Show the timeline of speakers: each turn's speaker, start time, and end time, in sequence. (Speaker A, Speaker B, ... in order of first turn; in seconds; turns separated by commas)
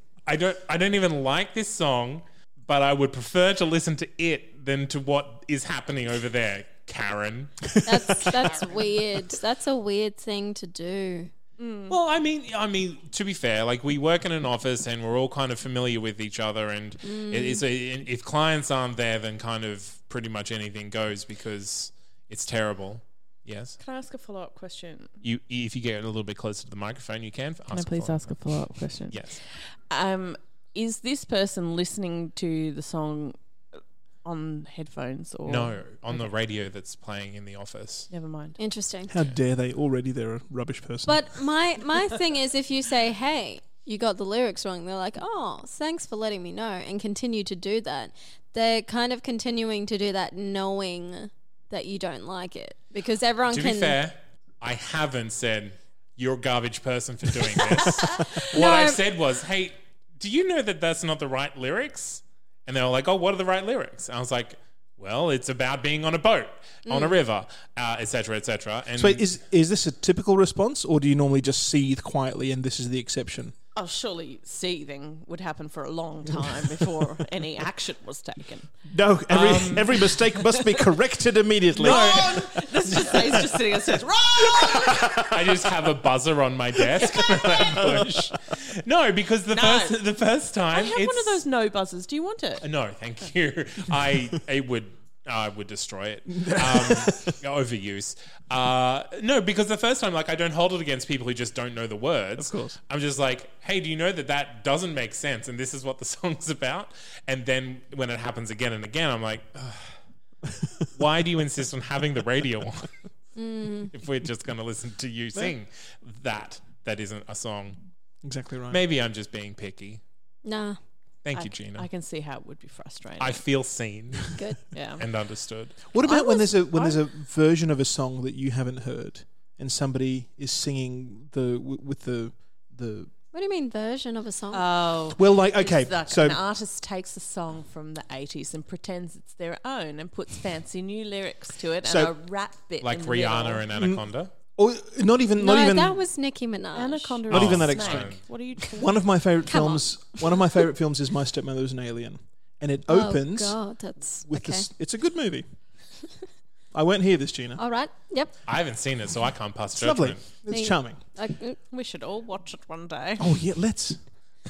Speaker A: 0.3-7.7, Speaker B: 7.8-11.3, Speaker C: 11.6-12.0, Speaker A: 11.9-23.8, Speaker B: 17.0-17.6, Speaker C: 23.8-25.1, Speaker A: 25.2-29.4, Speaker C: 27.7-33.4, Speaker C: 34.2-35.8, Speaker A: 35.5-38.1, Speaker C: 38.1-38.6, Speaker B: 38.6-39.1, Speaker D: 39.1-41.4, Speaker B: 41.1-54.0, Speaker A: 53.5-69.3, Speaker B: 58.0-59.0, Speaker B: 66.9-67.2, Speaker D: 69.0-73.5, Speaker C: 73.8-78.7, Speaker D: 78.9-82.5, Speaker A: 79.3-80.0, Speaker C: 81.8-85.2, Speaker A: 81.8-82.5, Speaker A: 84.8-91.4, Speaker C: 87.1-87.8, Speaker D: 87.6-88.2, Speaker C: 89.5-90.0, Speaker C: 90.7-92.6, Speaker A: 92.6-109.9, Speaker D: 96.3-97.4, Speaker D: 102.4-102.8, Speaker D: 110.5-110.8, Speaker A: 110.9-112.9, Speaker B: 113.4-113.9, Speaker A: 113.9-117.8, Speaker D: 118.2-118.8, Speaker A: 118.7-120.0, Speaker B: 120.4-120.8, Speaker A: 121.2-121.9, Speaker C: 121.4-123.4, Speaker A: 123.2-124.4, Speaker C: 124.7-125.0, Speaker A: 125.0-125.8, Speaker D: 125.9-133.1, Speaker B: 126.1-126.4, Speaker C: 126.7-127.0, Speaker B: 133.3-134.6, Speaker C: 134.5-143.7, Speaker D: 135.1-136.4, Speaker D: 141.8-142.1, Speaker A: 142.8-144.3, Speaker D: 143.8-144.0, Speaker D: 144.6-146.0, Speaker B: 145.4-147.2, Speaker C: 146.8-149.1, Speaker A: 147.3-148.2, Speaker D: 147.3-153.6, Speaker B: 149.5-150.2, Speaker B: 152.9-154.7, Speaker D: 154.3-155.5, Speaker D: 156.7-157.6, Speaker B: 157.6-158.3, Speaker A: 158.5-160.2, Speaker D: 159.8-161.0, Speaker B: 160.5-161.6, Speaker C: 161.7-163.3, Speaker D: 163.2-164.0